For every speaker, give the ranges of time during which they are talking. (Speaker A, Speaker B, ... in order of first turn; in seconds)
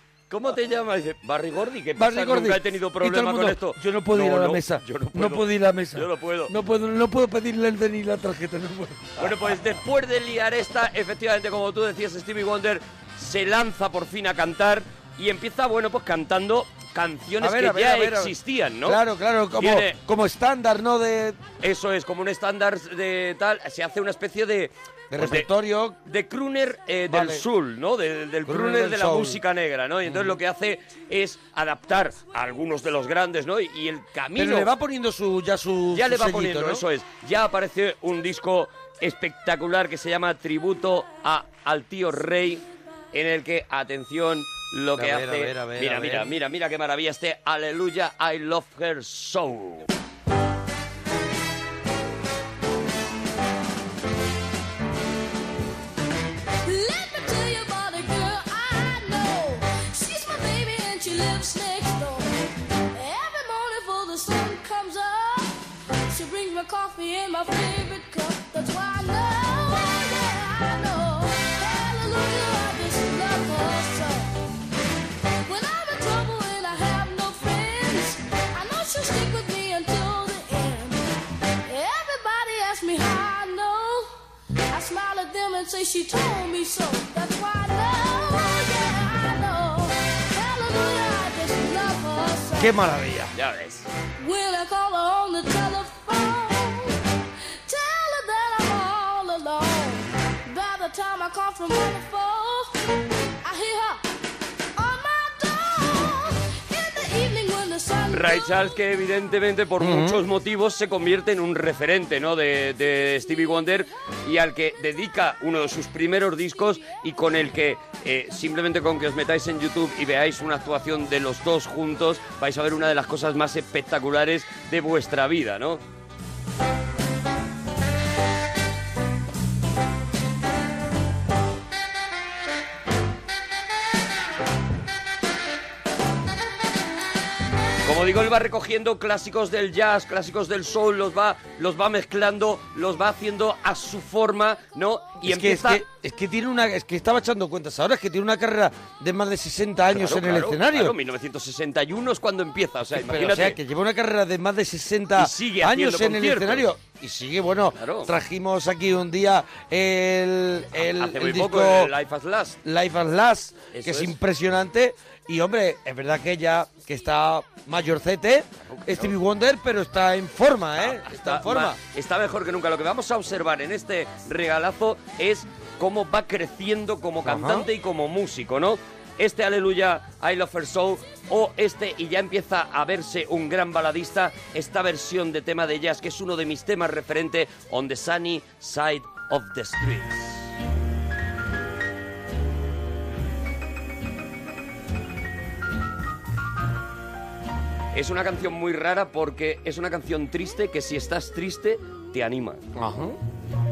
Speaker A: 0.3-6.5, 9.2-19.0, 19.6-20.0, 21.6-25.5, 26.1-34.7, 35.9-49.9, 93.3-93.9, 108.1-125.8, 137.8-145.8, 149.9-153.6, 155.2-156.7, 157.8-158.1, 160.8-162.6, 163.7-164.2, 168.7-169.2, 170.8-190.5, 197.9-202.6
Speaker B: 2.0-9.3, 17.4-18.3, 18.9-21.4, 25.1-26.0, 27.1-27.4, 28.5-29.4, 30.1-30.4, 34.4-36.8, 45.0-46.3, 92.6-93.3, 109.8-110.2, 145.2-150.9, 152.9-161.9, 162.7-171.8, 177.2-177.7, 202.8-203.2
Speaker C: 56.6-62.3, 62.9-65.5, 66.1-74.3, 75.5-81.0, 81.7-84.1, 84.7-92.7, 94.2-97.0, 97.7-102.7, 103.4-104.0, 104.8-108.6